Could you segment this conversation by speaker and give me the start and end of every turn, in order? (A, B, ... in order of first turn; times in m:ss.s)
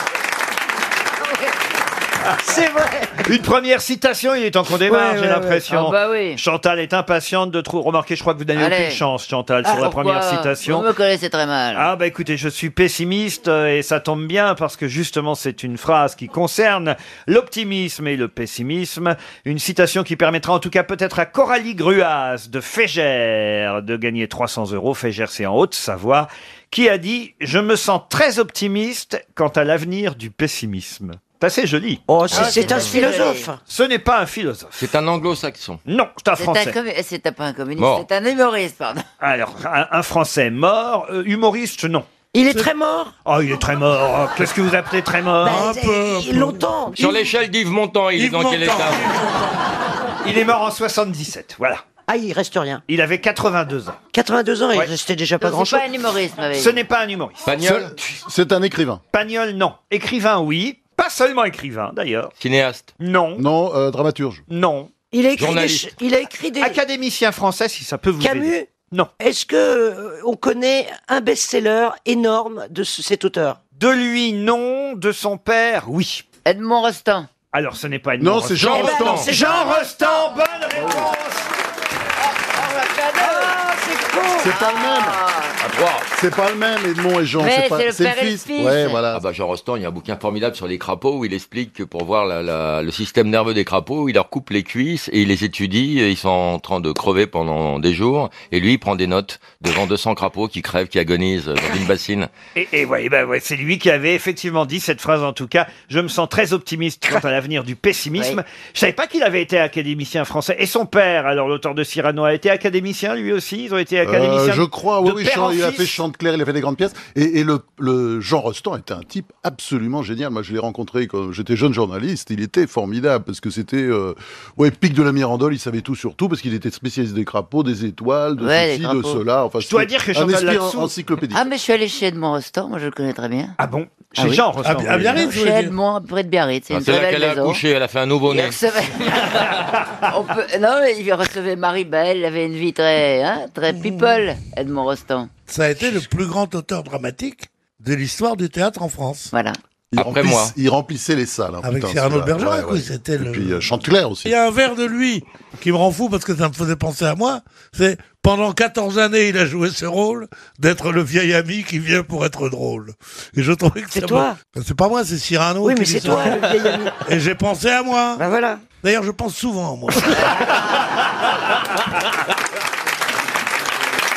0:02.4-0:10.9 A
0:05.7-0:06.4 B
0:08.6-0:09.0 B
0:09.6-0:11.9 B
0:11.8-0:32.0 A
0:32.1-0:33.6 C
0:32.3-0:33.5 B
0:33.7-0:34.8 A
0:34.8-0:35.8 D
0:35.9-0:36.8 A
0:36.4-0:39.0 B
0:37.8-0:38.0 D
0:39.2-0:42.1 A
0:42.3-0:43.1 C
0:43.3-0:45.7 A
0:45.4-0:47.2 C
0:45.4-0:46.7 E
0:47.0-0:49.1 D
0:48.2-0:49.5 E
0:50.2-0:51.8 A
0:52.1-0:52.8 C
0:52.9-0:54.0 A
0:54.1-0:55.9 C
0:55.4-0:56.8 B
0:56.6-0:57.5 A
0:57.4-0:58.0 D
0:57.6-0:59.0 F
0:59.1-1:02.3 A
1:02.4-1:02.9 D
1:03.0-1:03.4 A
1:03.4-1:04.4 F
1:04.5-1:04.9 A
1:05.1-1:06.8 C
1:05.4-1:05.9 D
1:06.6-1:09.1 A
1:08.2-1:08.7 C
1:09.2-1:13.6 C
1:13.8-1:16.2 A
1:16.5-1:17.3 B
1:17.5-1:21.5 A
1:18.2-1:19.2 F
1:18.6-1:19.3 D
1:18.7-1:20.1 C
1:23.9-1:24.2 C
1:24.3-1:25.2 F
1:24.4-1:25.6 B
1:25.6-1:26.1 D
1:26.1-1:29.2 F
1:27.4-1:29.1 B
1:29.1-1:42.3 D
1:42.6-1:56.0 A
1:54.0-2:11.4 F
2:08.4-2:09.2 B
2:09.6-2:10.9 A
2:11.3-2:13.5 B
2:13.6-2:15.2 A
2:14.2-2:14.4 B
2:14.6-2:15.8 E
2:15.0-2:17.6 B
2:16.7-2:18.6 D
2:18.3-2:25.3 B
2:23.8-2:24.0 E
2:25.5-2:29.3 E
2:29.3-2:29.6 B
2:29.9-2:34.3 F
2:29.9-2:30.5 D
2:31.6-2:33.6 E
2:34.2-2:48.2 E
2:43.9-2:44.4 C
2:45.6-2:46.9 C
2:48.2-2:48.6 C
2:48.8-2:50.3 E